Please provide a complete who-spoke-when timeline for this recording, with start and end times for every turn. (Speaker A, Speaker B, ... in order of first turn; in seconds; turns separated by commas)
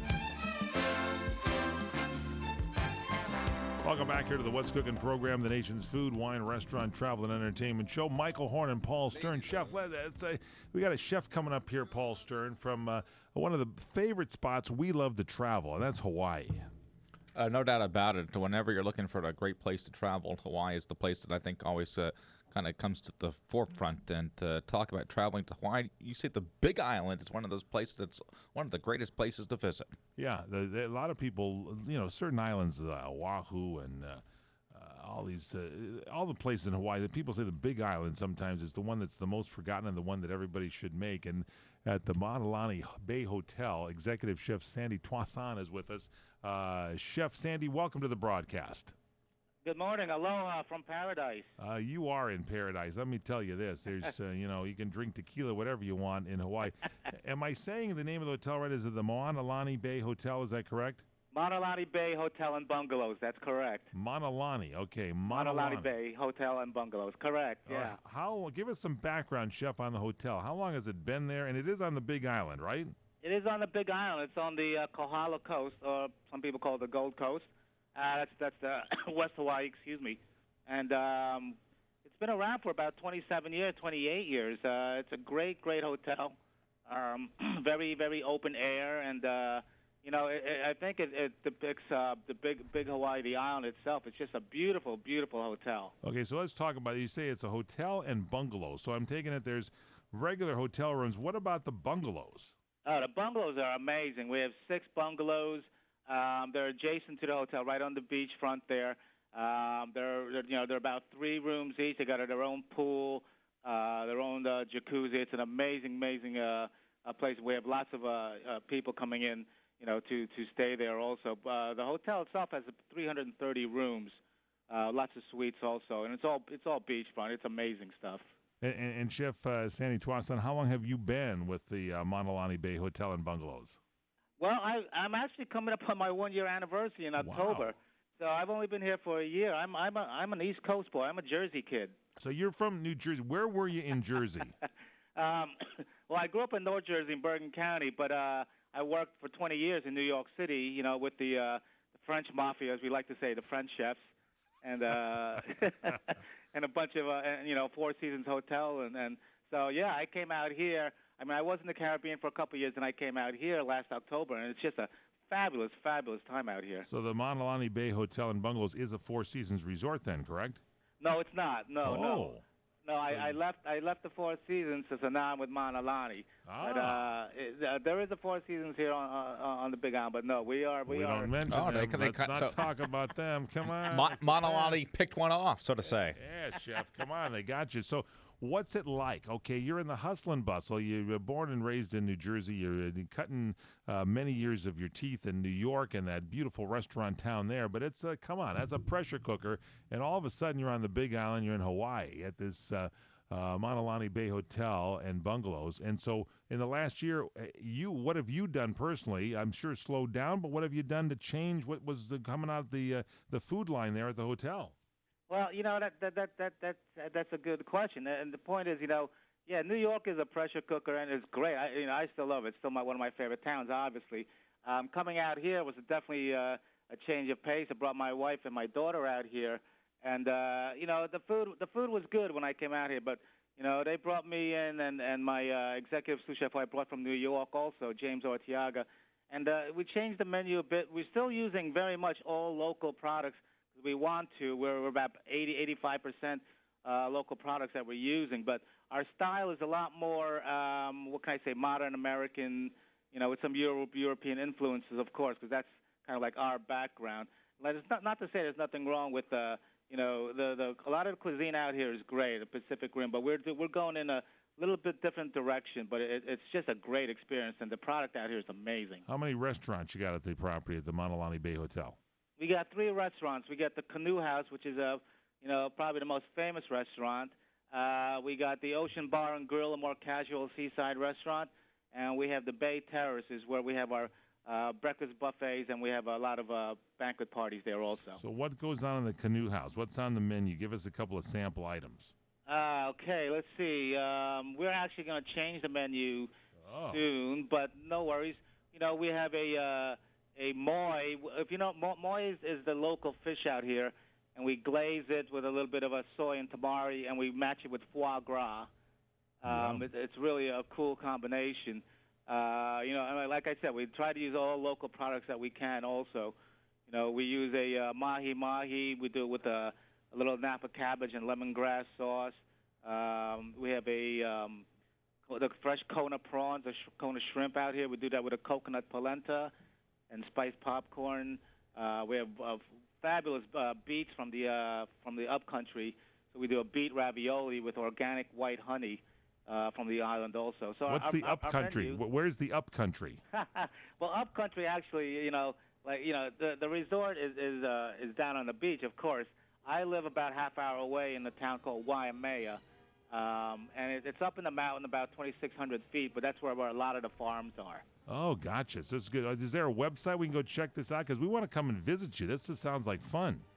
Speaker A: 3.8-16.7, Speaker B: 17.4-29.9, Speaker A: 30.2-49.0, Speaker C: 49.6-51.5, Speaker A: 51.6-61.0, Speaker C: 61.3-63.9, Speaker A: 63.9-65.9, Speaker C: 65.3-68.0, Speaker A: 67.7-72.9, Speaker C: 73.2-95.9, Speaker A: 96.0-102.5, Speaker C: 102.8-128.3, Speaker A: 128.6-133.8, Speaker C: 134.4-142.0, Speaker A: 137.2-137.7, Speaker A: 142.2-144.5, Speaker C: 145.2-154.0, Speaker C: 154.6-166.9, Speaker A: 166.8-170.6, Speaker C: 171.0-172.3, Speaker A: 171.8-172.4, Speaker C: 172.8-181.4, Speaker A: 173.1-173.4, Speaker A: 176.5-177.1, Speaker A: 180.9-184.9, Speaker B: 181.5-182.7, Speaker B: 183.8-186.2, Speaker A: 185.9-214.7, Speaker C: 215.3-269.0, Speaker A: 269.1-272.0, Speaker C: 272.4-288.2, Speaker A: 288.2-292.1, Speaker C: 292.5-296.3, Speaker A: 296.6-297.0, Speaker C: 296.9-308.7, Speaker C: 309.4-316.4, Speaker A: 309.5-309.9, Speaker C: 316.9-324.6, Speaker C: 325.3-329.5, Speaker C: 330.1-342.0, Speaker A: 340.9-343.2, Speaker C: 343.3-357.8, Speaker A: 358.1-363.4